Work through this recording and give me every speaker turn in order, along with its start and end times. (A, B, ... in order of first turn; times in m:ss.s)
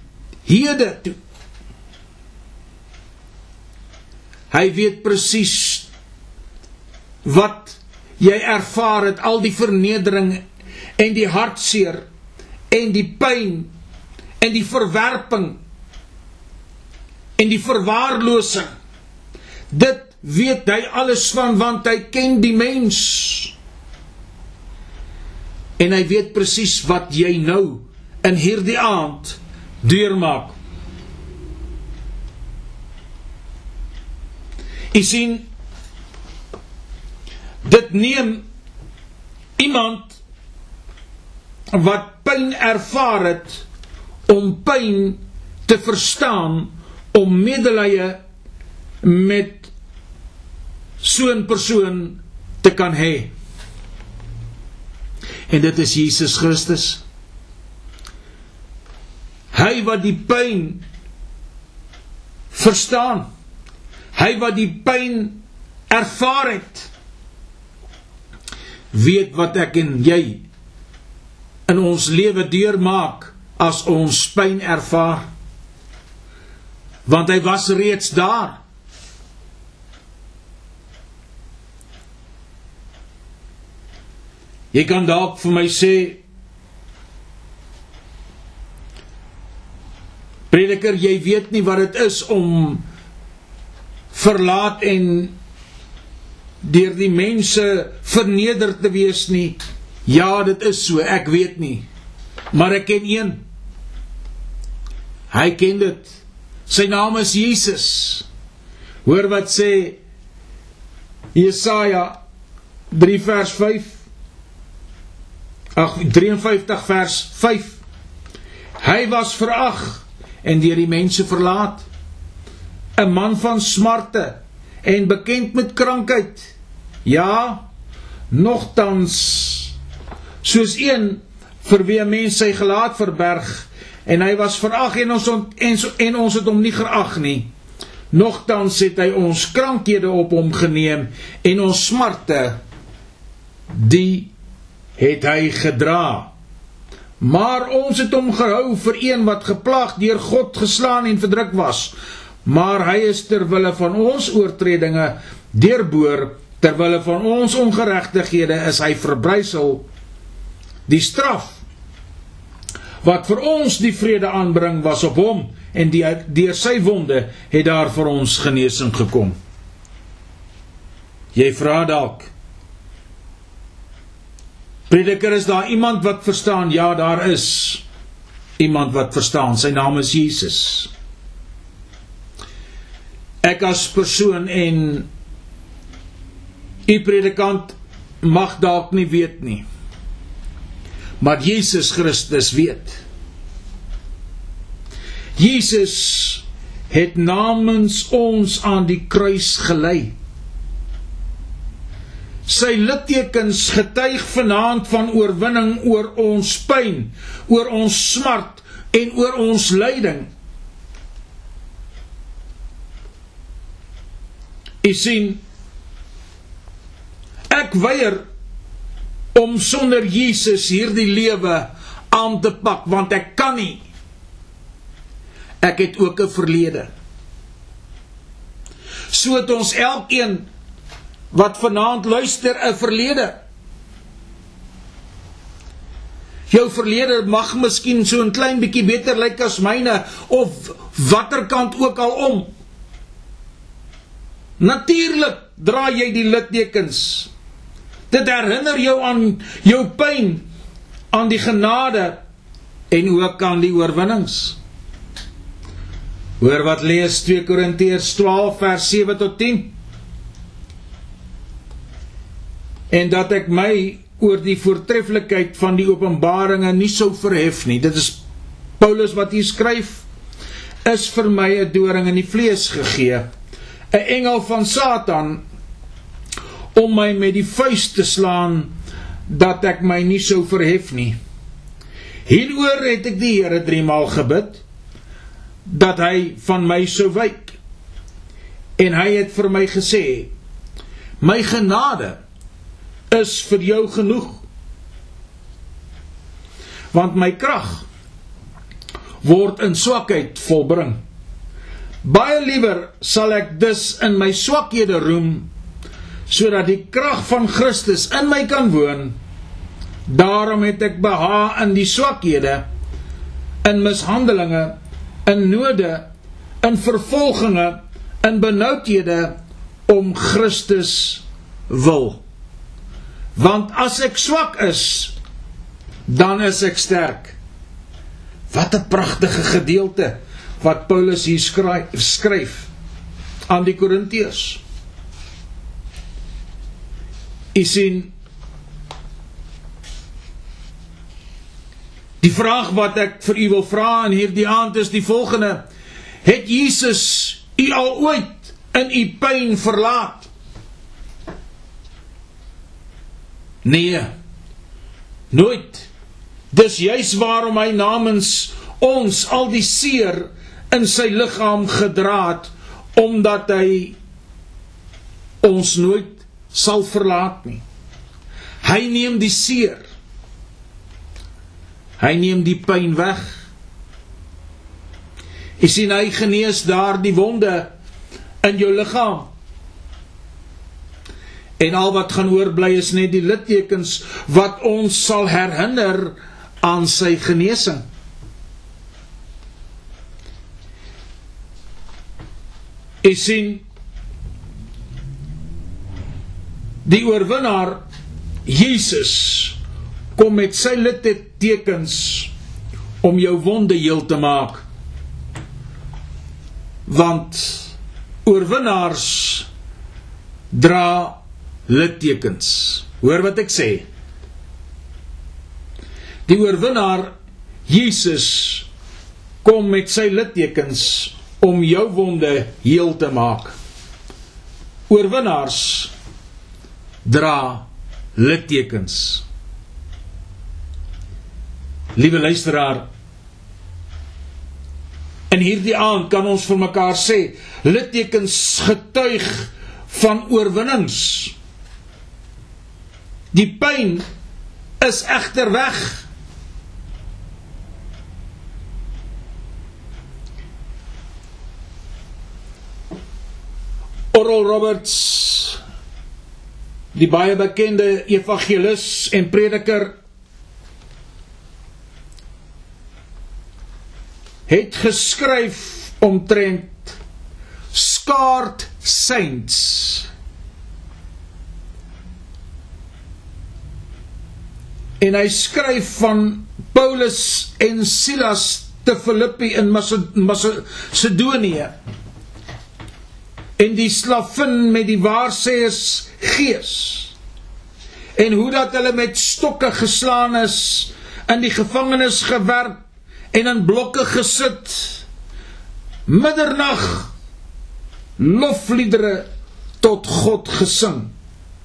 0:00.5-0:01.2 A
0:04.5-0:05.9 A
0:07.2-0:10.4 A
0:11.0-0:12.1 A
0:12.7-0:13.7 A
0:14.4-0:15.6 A
0:17.4-0:18.7 A
0:19.7-0:23.6 A
0:25.8-0:30.6 A
0:34.9-0:35.5 A
0:37.6-0:38.4 A
0:39.6-0:40.2 A
0:41.7-0:43.6 A
0:44.3-0:48.2 A
0:49.0-0:49.7 A
0:51.0-0:53.3 A
0:55.5-0:57.0 A
0:59.5-1:00.8 A
1:02.5-1:03.3 A
1:04.1-1:06.9 A
1:08.9-1:10.4 A
1:11.7-1:15.3 A
1:17.1-1:18.6 A
1:24.7-1:26.2 A
1:30.5-1:32.8 A
1:34.1-1:35.3 A
1:36.6-1:41.9 A
1:42.5-1:43.4 A
1:45.3-1:46.2 A
1:46.7-1:48.3 A
1:49.0-1:50.0 A
1:51.4-1:52.2 A
1:52.9-1:54.0 A
1:55.8-1:57.8 A
1:58.8-2:01.9 A
2:03.0-2:06.5 A
2:07.1-2:07.7 A
2:08.3-2:09.7 A
2:10.4-2:17.5 A
2:18.1-2:22.6 A
2:23.7-2:24.3 A
2:25.0-2:26.3 A
2:27.2-2:31.9 A
2:32.4-2:39.8 A
2:40.9-2:41.6 A
2:43.0-2:49.4 A
2:51.4-2:52.3 A
2:54.9-2:57.8 A
2:58.6-3:00.9 A
3:03.4-3:05.1 A
3:06.9-3:09.6 A
3:11.2-3:13.0 A
3:15.4-3:20.1 A
3:22.5-3:30.3 A
3:34.8-3:35.4 A
3:37.5-3:38.2 A
3:39.3-3:43.8 A
3:45.6-3:46.9 A
3:49.1-3:50.5 A
3:51.3-3:53.4 A
3:56.5-4:02.5 A
4:04.6-4:07.3 A
4:08.1-4:10.4 A
4:11.1-4:12.2 A
4:12.9-4:14.6 A
4:16.4-4:19.7 A
4:22.9-4:28.2 A
4:28.8-4:30.0 A
4:30.8-4:33.3 A
4:33.9-4:35.4 A
4:36.8-4:38.7 A
4:39.3-4:41.2 A
4:42.3-4:44.6 A
4:45.7-4:47.6 A
4:48.8-4:50.3 A
4:51.2-4:52.2 A
4:53.1-4:54.4 A
4:56.9-4:57.8 A
4:59.2-5:01.0 A
5:02.0-5:05.5 A
5:06.3-5:09.2 A
5:10.1-5:12.7 A
5:13.6-5:16.1 A
5:16.6-5:19.4 A
5:19.9-5:22.2 A
5:23.4-5:25.2 A
5:26.1-5:27.4 A
5:28.5-5:32.7 A
5:33.5-5:34.6 A
5:37.5-5:38.1 A
5:42.2-5:45.6 A
5:46.2-5:50.3 A
5:53.6-5:54.1 A
5:55.3-5:55.9 A
5:56.5-6:04.0 A
6:05.4-6:07.6 A
6:08.6-6:09.8 A
6:12.0-6:13.3 A
6:15.6-6:17.7 A
6:18.4-6:19.3 A
6:21.6-6:27.8 A
6:33.0-6:33.6 A
6:36.8-6:37.8 A
6:38.5-6:39.6 A
6:40.2-6:42.3 A
6:43.0-6:44.6 A
6:46.9-6:47.7 A
6:48.2-6:49.5 A
6:50.5-6:53.9 A
6:56.3-6:57.1 A
6:57.7-6:58.7 A
6:59.4-7:03.6 A
7:04.9-7:05.9 A
7:07.0-7:09.2 A
7:12.0-7:12.9 A
7:15.3-7:21.3 A
7:23.3-7:24.0 A
7:24.8-7:26.1 A
7:34.1-7:35.6 A
7:36.9-7:40.0 A
7:44.5-7:47.0 A
7:47.7-7:50.1 A
7:55.0-8:01.7 A
8:03.6-8:07.1 A
8:08.2-8:12.8 A
8:13.3-8:15.0 A
8:16.1-8:17.1 A
8:18.2-8:19.3 A
8:19.8-8:21.1 A